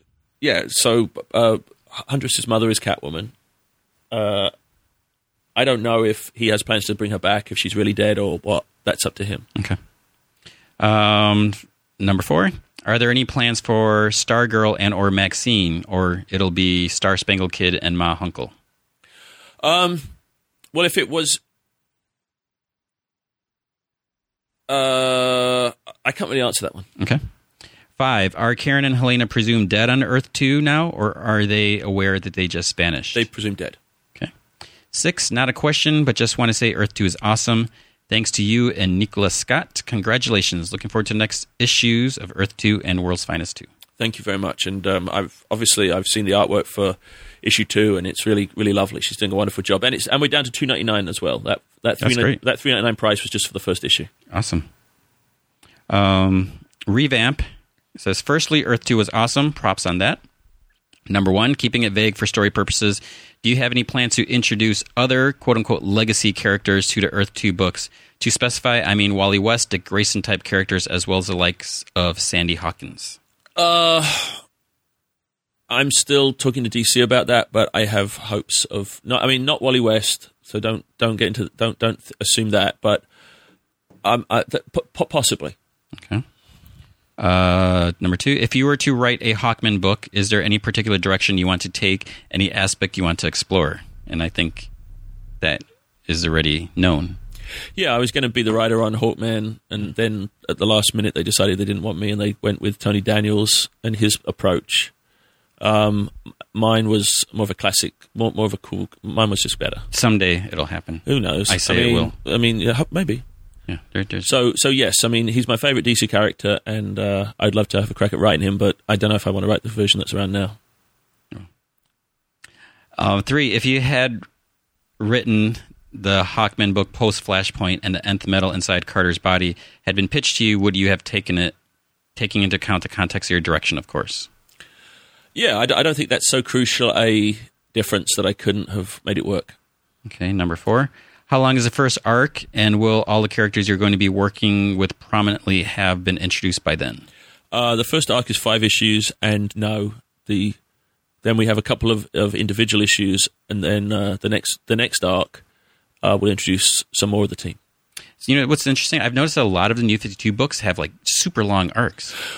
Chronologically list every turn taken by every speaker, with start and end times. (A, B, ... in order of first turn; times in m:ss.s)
0:00.4-0:03.3 A
0:04.1-0:04.5 A
0:05.5-0:09.4 A
0:10.8-0:18.5 B
0:19.6-0:20.0 A
0:20.7-0:21.4 A
0:24.7-0:26.9 A
0:28.0-0:33.2 B
0:33.1-0:33.8 A
0:34.9-0:43.7 B
0:44.0-0:54.1 A
0:52.0-0:52.4 B
0:54.3-0:54.7 B
0:55.9-1:00.2 B
1:01.1-1:13.2 B
1:13.6-1:14.4 A
1:15.7-1:23.0 A
1:24.0-1:25.5 A
1:26.0-1:26.2 B
1:27.2-1:34.7 B
1:35.4-1:37.2 B
1:37.8-1:44.9 A
1:45.6-1:49.8 A
1:49.9-1:52.1 B
1:51.0-1:53.2 A
1:53.7-1:54.3 B
1:54.2-2:00.6 A
2:03.0-2:04.2 B
2:05.0-2:11.5 B
2:12.2-2:14.3 B
2:15.3-2:19.6 A
2:20.0-2:27.0 B
2:27.5-2:30.6 A
2:31.2-2:35.4 A
2:36.0-2:37.6 A
2:38.2-2:42.1 B